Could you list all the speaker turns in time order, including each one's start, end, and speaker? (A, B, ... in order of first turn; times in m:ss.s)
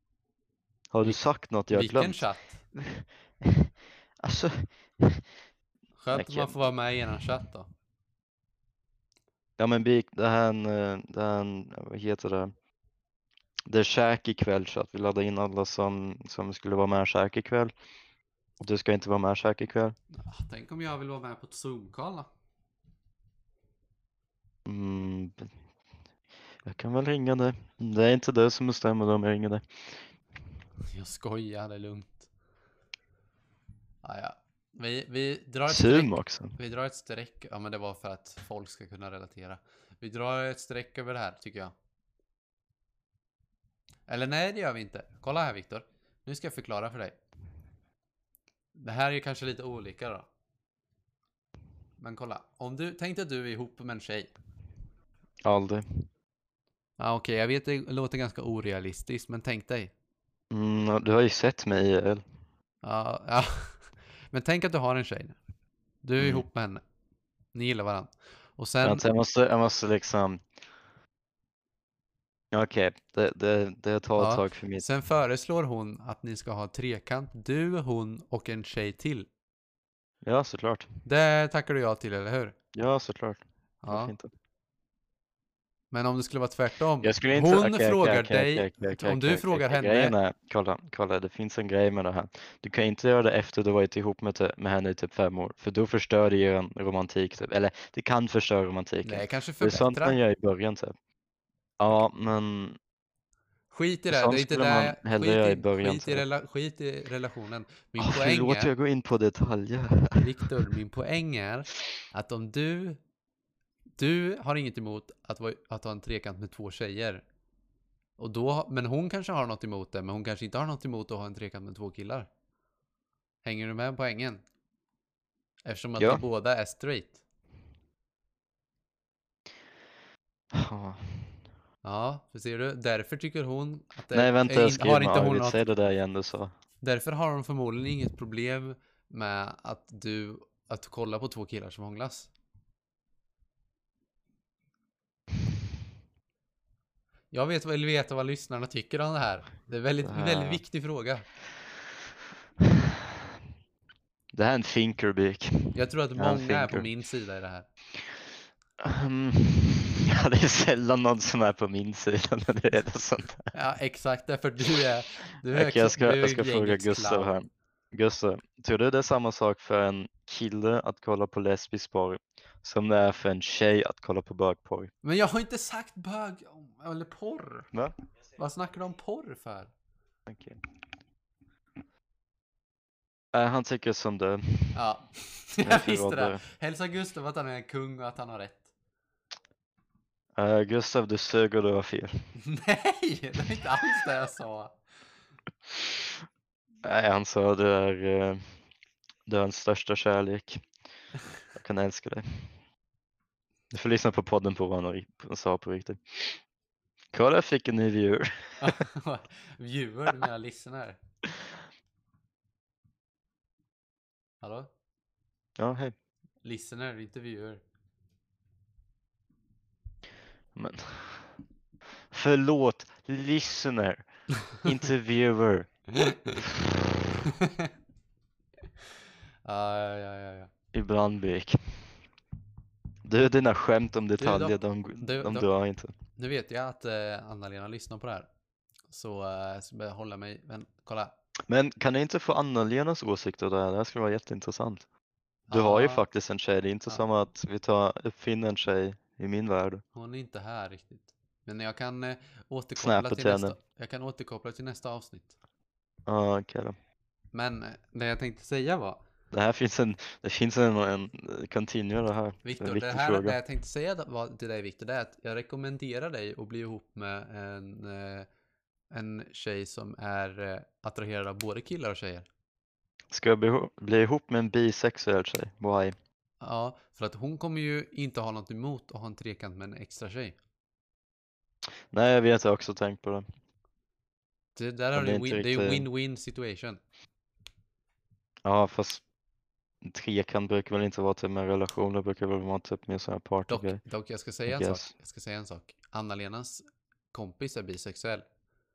0:00.9-0:05.3 A
0:01.0-0:02.6 B
0:06.0-0:07.7 B
0:06.1-0:06.7 A
0:09.6-0:12.5 A
0:13.7-0:17.7 A
0:18.6-0:20.0 A
0:20.2-0:22.3 B
0:24.6-0:25.5 A
0:26.6-0:30.0 A
0:30.9-0:32.3 B
0:34.0-0:41.7 B
0:35.7-0:36.6 A
0:44.1-0:47.2 B
0:48.8-0:50.3 B
0:52.0-0:54.3 B
0:55.4-0:56.1 A
0:57.0-0:59.9 B
1:00.5-1:02.2 A
1:02.8-1:05.4 B
1:06.0-1:06.8 B
1:06.2-1:06.4 A
1:07.5-1:09.1 B
1:08.8-1:10.5 A
1:12.5-1:14.9 A
1:14.2-1:19.3 B
1:20.2-1:20.9 A
1:21.0-1:22.6 B
1:22.7-1:24.3 A
1:23.8-1:24.1 B
1:25.9-1:30.2 B
1:27.0-1:41.0 A
1:39.0-1:40.2 B
1:41.8-1:42.8 A
1:43.7-1:48.7 B
1:44.1-1:46.2 A
1:48.0-1:50.5 A
1:50.2-1:53.0 B
1:54.0-1:57.2 B
1:58.2-2:02.3 B
2:03.4-2:04.4 B
2:05.6-2:07.2 B
2:10.5-2:11.4 A
2:11.8-2:15.6 B
2:14.1-2:16.5 A
2:16.8-2:22.3 B
2:27.3-2:31.3 B
2:30.0-2:30.6 A
2:32.6-2:33.0 A
2:34.3-2:36.9 A
2:35.7-2:37.7 B
2:38.8-2:43.5 A
2:43.5-2:47.4 B
2:45.5-2:54.9 A
2:55.0-2:57.7 B
2:58.4-2:59.7 B
3:00.3-3:00.6 A
3:03.3-3:04.8 A
3:04.7-3:08.6 B
3:05.6-3:06.4 A
3:10.4-3:12.2 A
3:12.4-3:14.8 B
3:16.8-3:18.4 A
3:19.3-3:20.6 A
3:21.5-3:22.5 A
3:23.7-3:26.4 A
3:27.1-3:28.8 A
3:28.6-3:31.0 B
3:34.4-3:34.7 B
3:35.6-3:36.0 A
3:36.4-3:37.6 B
3:40.6-3:41.3 A
3:42.1-3:45.8 A
3:46.0-3:46.4 B
3:46.4-3:47.2 A
3:47.2-3:47.7 B
3:49.4-3:50.5 B
3:50.7-3:51.9 A
3:53.1-3:55.9 A
3:54.2-3:55.5 B
3:56.2-3:58.3 B
3:58.9-4:01.1 B
4:01.5-4:04.8 A
4:05.5-4:06.0 B
4:05.5-4:09.8 A
4:09.9-4:15.4 B
4:12.8-4:13.6 A
4:16.1-4:16.8 A
4:17.3-4:19.0 B
4:19.3-4:23.4 A
4:22.4-4:28.3 B
4:28.9-4:32.3 B
4:33.1-4:36.0 A
4:36.4-4:40.4 B
4:41.9-4:43.3 A
4:44.6-4:46.8 B
4:45.0-4:45.9 A
4:48.4-4:49.0 A
4:49.8-4:53.8 A
4:53.5-4:58.3 B
4:54.5-4:54.9 A